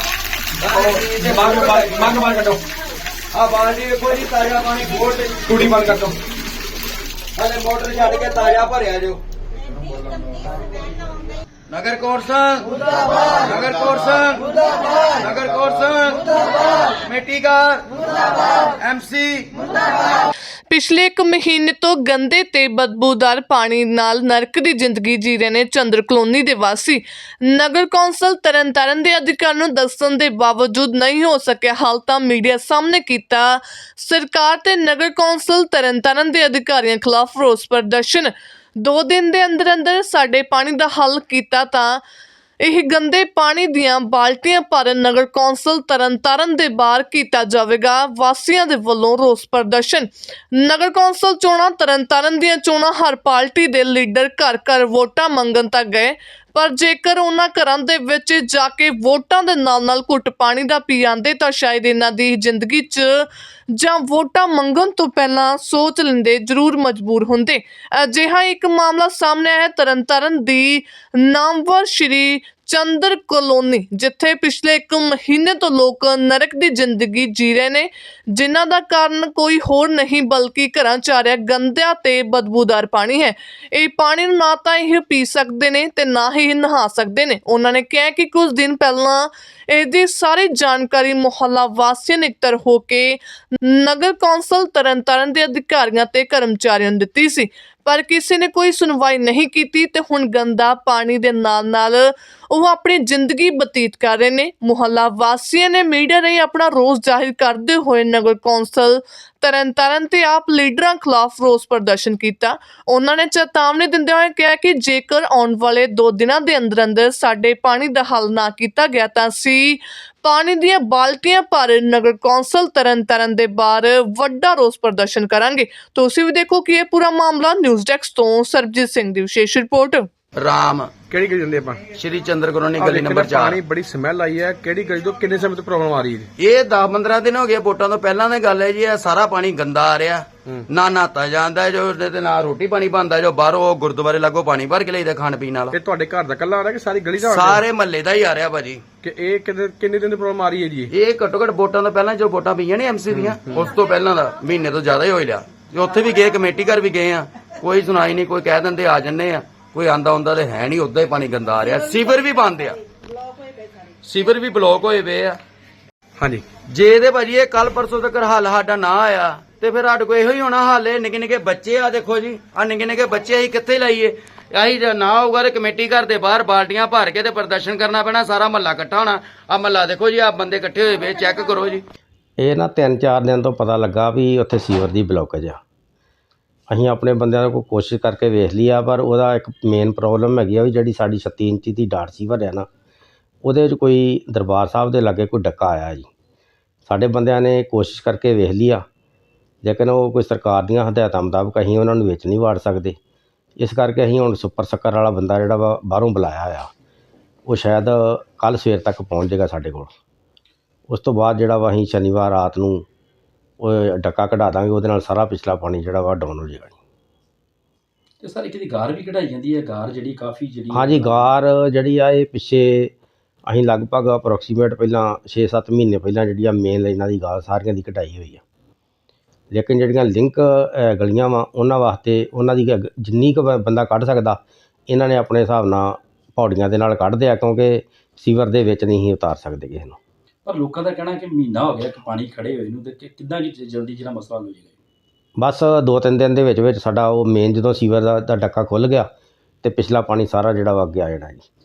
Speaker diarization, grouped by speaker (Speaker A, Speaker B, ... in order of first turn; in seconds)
Speaker A: 0.6-2.2, 3.3-5.9, 7.3-9.2, 11.7-12.7, 13.3-17.9, 18.6-19.5, 130.4-130.9, 131.9-133.6, 136.4-145.8, 147.2-148.8, 150.9-162.8, 164.0-165.4, 166.6-181.8
Speaker B: 0.7-2.6, 5.5-6.2, 131.1-131.9, 132.8-136.3, 145.7-147.7, 149.0-150.9, 153.1-153.7, 166.2-166.5
Speaker C: 20.7-42.0, 42.6-130.1
Speaker D: 182.4-185.6, 186.7-192.7, 193.4-196.1, 196.8-198.8, 199.6-203.0, 203.6-206.7, 207.5-209.9, 210.9-212.8, 213.6-216.8, 220.7-222.9, 223.5-228.4, 229.5-240.0, 245.4-249.1, 249.6-251.4
Speaker E: 218.2-221.3, 240.4-244.8